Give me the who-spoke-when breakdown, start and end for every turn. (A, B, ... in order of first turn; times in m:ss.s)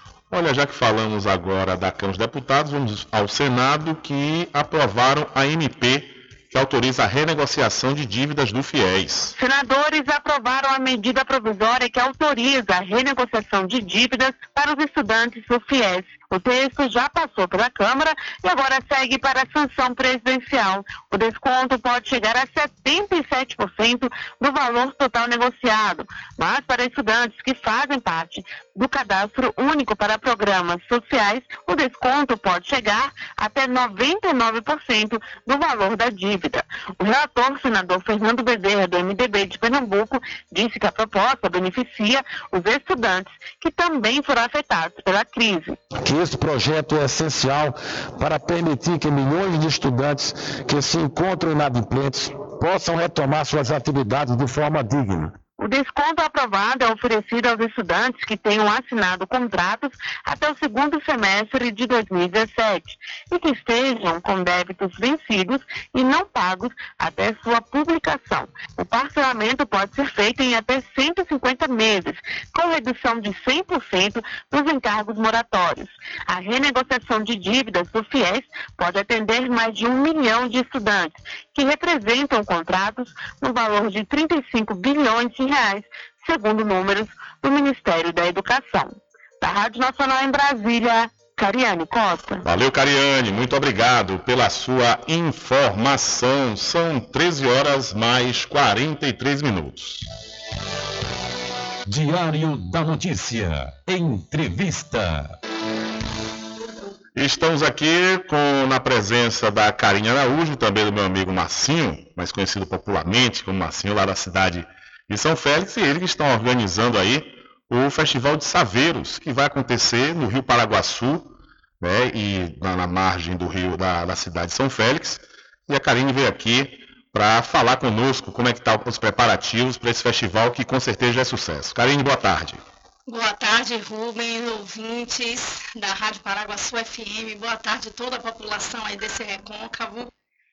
0:00.3-0:09.3 A
0:09.4-0:45.8 B
0:46.0-0:55.3 C
0:55.6-1:32.4 B
1:32.4-1:40.0 A
1:41.9-1:45.4 D
1:47.1-2:12.6 A
2:13.1-2:20.1 E